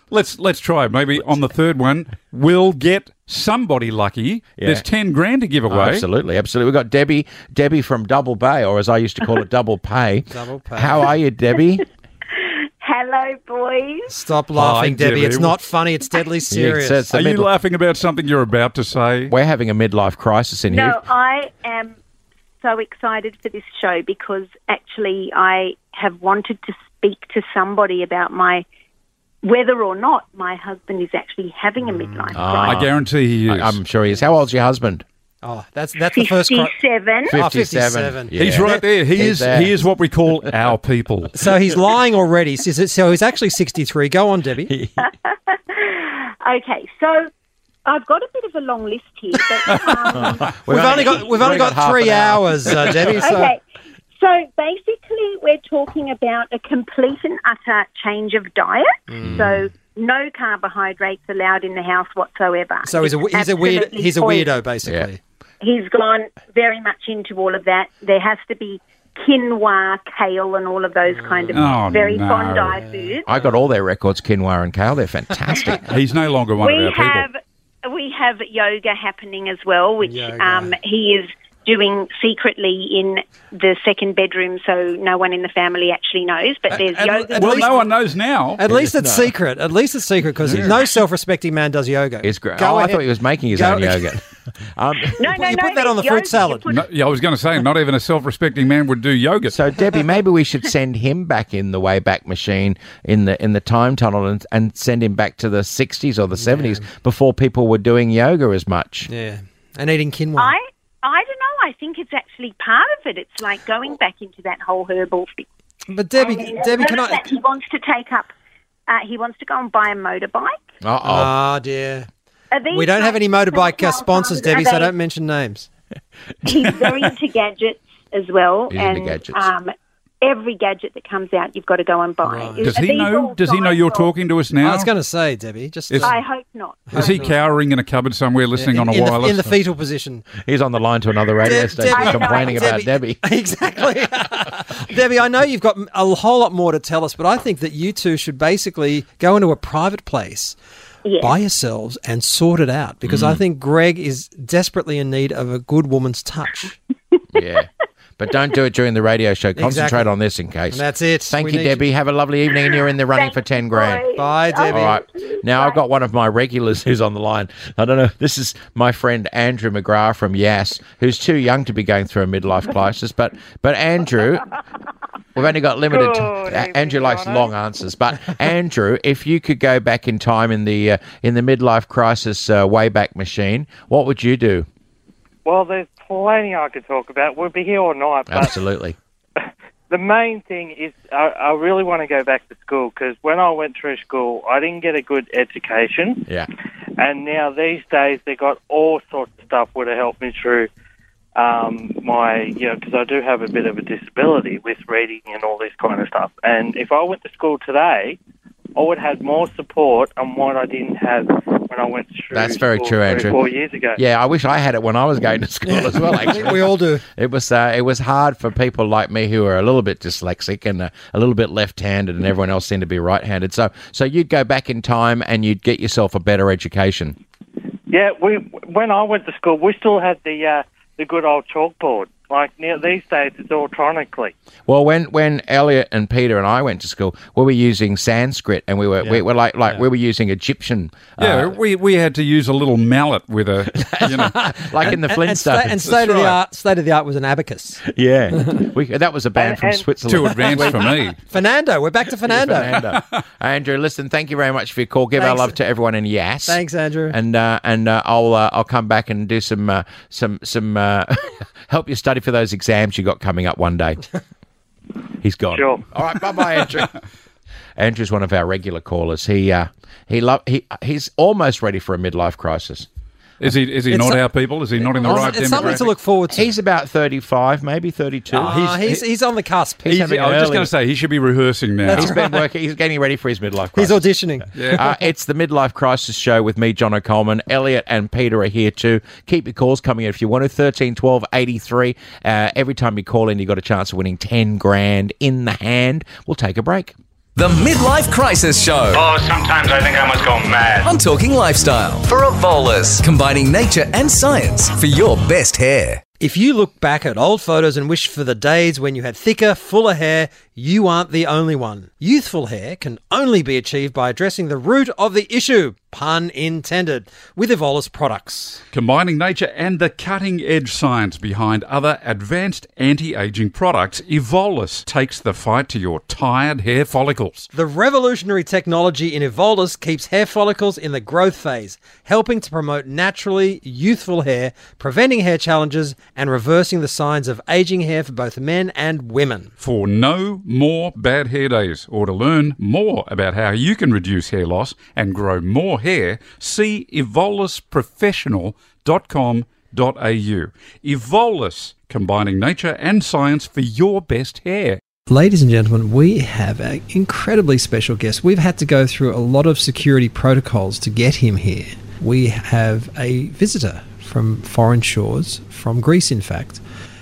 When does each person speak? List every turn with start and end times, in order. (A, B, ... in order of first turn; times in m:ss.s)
0:00.1-0:06.0 A
0:04.6-0:04.8 B
0:05.7-0:11.8 B
0:10.3-0:11.1 C
0:12.4-0:14.1 D
0:14.1-0:17.0 C
0:14.5-0:15.6 A
0:16.5-0:17.5 B
0:17.1-0:19.3 A
0:19.3-0:21.0 B
0:20.7-0:22.0 D
0:22.6-0:28.6 D
0:29.4-0:32.8 D
0:31.9-0:32.3 C
0:32.3-0:32.9 B
0:32.6-0:33.8 A
0:33.4-0:35.0 B
0:35.4-0:36.7 C
0:36.1-0:37.4 D
0:37.3-0:39.7 B
0:37.3-0:38.8 C
0:38.4-0:41.3 A
0:41.3-0:44.7 C
0:44.7-0:45.0 B
0:45.0-0:47.3 D
0:47.8-0:51.6 D
0:50.1-0:53.2 B
0:50.7-0:53.5 C
0:53.2-0:53.6 D
0:54.2-1:04.5 D
0:59.1-0:59.5 C
0:59.2-0:59.5 B
1:02.8-1:05.2 C
1:05.6-1:13.3 D
1:11.1-1:11.8 C
1:11.5-1:12.8 A
1:12.7-1:13.2 C
1:13.2-1:15.9 B
1:15.7-1:17.3 A
1:16.6-1:27.9 D
1:20.0-1:20.7 C
1:26.7-1:27.8 C
1:27.4-1:28.6 A
1:28.6-1:34.1 C
1:28.6-1:29.3 B
1:30.4-1:30.8 B
1:32.2-1:35.2 B
1:35.1-1:36.6 C
1:35.2-1:36.8 D
1:36.7-1:39.6 A
1:39.5-1:49.1 B
1:46.4-1:46.9 C
1:49.1-1:50.5 C
1:50.4-1:55.5 D
1:55.9-1:57.3 C
1:56.2-1:58.3 D
1:58.9-2:00.6 D
2:00.8-2:01.3 B
2:01.0-2:02.1 C
2:02.5-2:04.9 D
2:02.7-2:05.7 C
2:06.4-2:14.1 D
2:08.7-2:09.5 B
2:12.2-2:12.8 C
2:12.6-2:14.9 A
2:14.6-2:16.2 C
2:16.0-2:17.3 D
2:16.9-2:17.3 C
2:16.9-2:19.5 A
2:18.6-2:20.2 C
2:20.4-2:23.2 B
2:21.4-2:30.6 C
2:21.9-2:22.8 D
2:31.0-2:31.4 D
2:31.2-2:36.8 C
2:33.0-2:33.4 B
2:37.3-2:44.1 B
2:39.6-2:40.1 C
2:40.7-2:41.9 C
2:43.1-2:45.8 D
2:44.2-2:45.0 C
2:44.7-2:54.5 B
2:55.3-3:04.7 B
2:55.9-2:57.5 E
3:05.4-3:08.6 E
3:08.3-3:09.0 B
3:09.9-3:16.3 E
3:17.0-3:20.7 E
3:21.4-3:28.2 E
3:28.8-3:34.0 E
3:32.3-3:33.4 B
3:34.0-3:47.2 B
3:35.7-3:37.0 C
3:47.9-3:54.3 E
3:54.7-4:01.6 B
3:59.0-3:59.8 C
4:01.2-4:04.4 A
4:03.7-4:06.3 B
4:04.3-4:07.8 C
4:07.8-4:10.9 B
4:09.4-4:10.7 E
4:10.0-4:11.2 A
4:11.3-4:12.7 C
4:12.3-4:24.0 B
4:12.7-4:13.0 A
4:15.2-4:15.5 C
4:16.4-4:17.2 C
4:25.2-4:26.9 B
4:25.5-4:25.8 E
4:27.8-4:32.9 B
4:33.4-4:35.9 A
4:33.9-4:34.2 C
4:35.0-4:36.5 C
4:35.0-4:38.6 B
4:38.4-4:39.9 C
4:38.4-4:39.0 A
4:39.8-4:40.7 B
4:39.8-4:42.1 A
4:41.8-4:42.5 C
4:41.9-4:56.9 B
4:43.8-4:44.8 C
4:44.6-4:44.8 A
4:57.4-4:59.0 F
4:58.9-5:00.9 G
5:00.8-5:06.0 F
5:06.2-5:18.6 C
5:18.7-5:27.5 A
5:27.5-5:39.5 C
5:39.6-5:54.8 A
5:55.1-6:06.6 C